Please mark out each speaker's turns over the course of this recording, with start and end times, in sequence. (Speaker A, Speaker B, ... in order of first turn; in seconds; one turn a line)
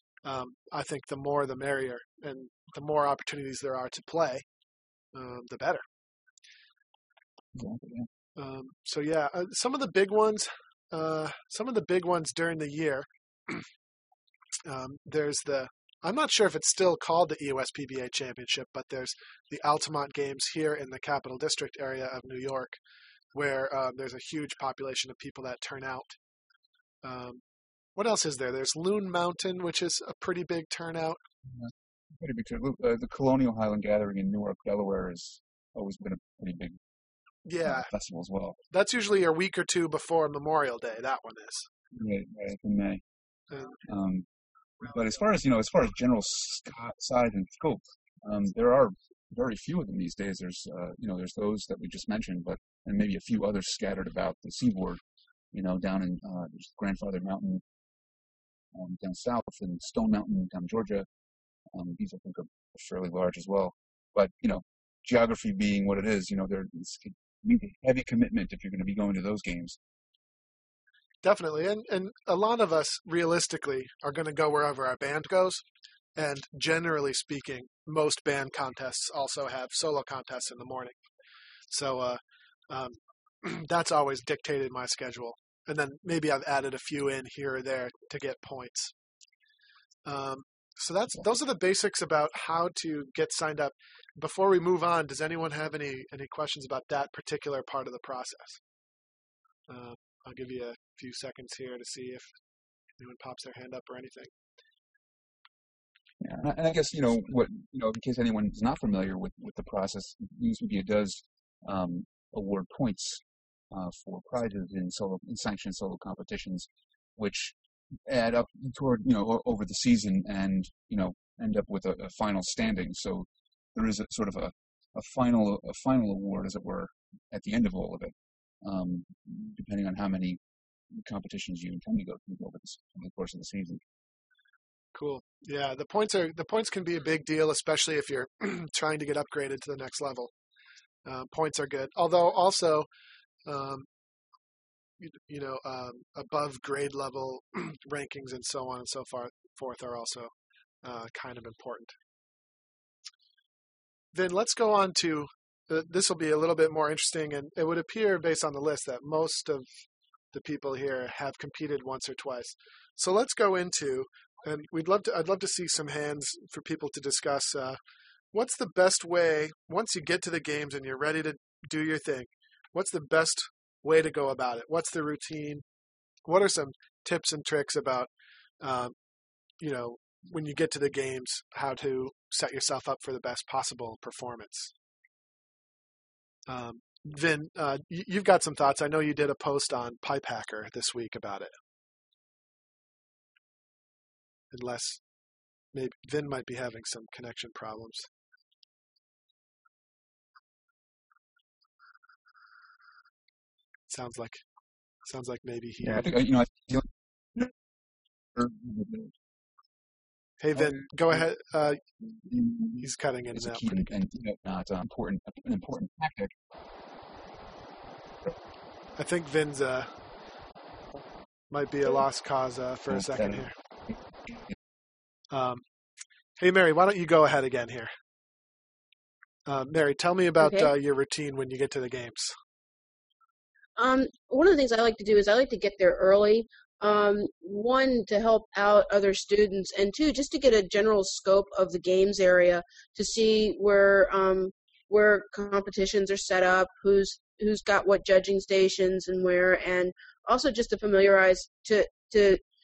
Speaker A: 0.2-4.4
Speaker A: 5.1-5.8
Speaker B: 7.5-8.1
Speaker A: 8.4-13.6
Speaker A: 14.7-22.8
Speaker A: 23.3-26.2
Speaker A: 27.0-27.4
Speaker A: 27.9-31.2
Speaker B: 31.5-36.8
Speaker A: 37.4-37.9
Speaker B: 37.6-38.6
Speaker A: 38.7-41.7
Speaker B: 41.9-43.0
Speaker B: 43.8-44.2
Speaker B: 44.8-55.0
Speaker B: 55.5-57.6
Speaker B: 58.7-61.1
Speaker B: 61.7-69.8
Speaker A: 71.2-75.6
Speaker A: 76.2-81.0
Speaker A: 81.7-88.9
Speaker A: 90.0-98.6
Speaker A: 99.7-102.3
Speaker A: 103.0-104.3
Speaker B: 106.2-117.5
Speaker B: 118.1-130.4
Speaker B: 130.9-133.8
Speaker A: 134.9-140.3
Speaker A: 141.0-142.9
Speaker A: 143.4-143.9
Speaker A: 145.0-150.3
Speaker A: 150.8-151.9
Speaker A: 154.1-159.7
Speaker A: 160.3-167.8
Speaker A: 168.3-175.6
Speaker A: 176.2-178.1
Speaker A: 178.6-178.9
Speaker A: 179.6-184.7
Speaker A: 186.5-191.5
Speaker A: 194.5-195.0
Speaker A: 195.7-198.1
Speaker A: 203.9-204.4
Speaker A: 205.0-206.1
Speaker B: 205.8-207.5
Speaker B: 208.3-209.1
Speaker A: 210.4-211.8
Speaker B: 210.5-211.2
Speaker B: 212.0-216.3
Speaker A: 212.8-213.9
Speaker A: 218.9-219.9
Speaker A: 221.5-223.5
Speaker B: 222.9-224.5
Speaker A: 225.3-225.6
Speaker A: 226.4-227.9
Speaker A: 229.5-232.3
Speaker C: 230.4-230.7
Speaker C: 233.8-252.4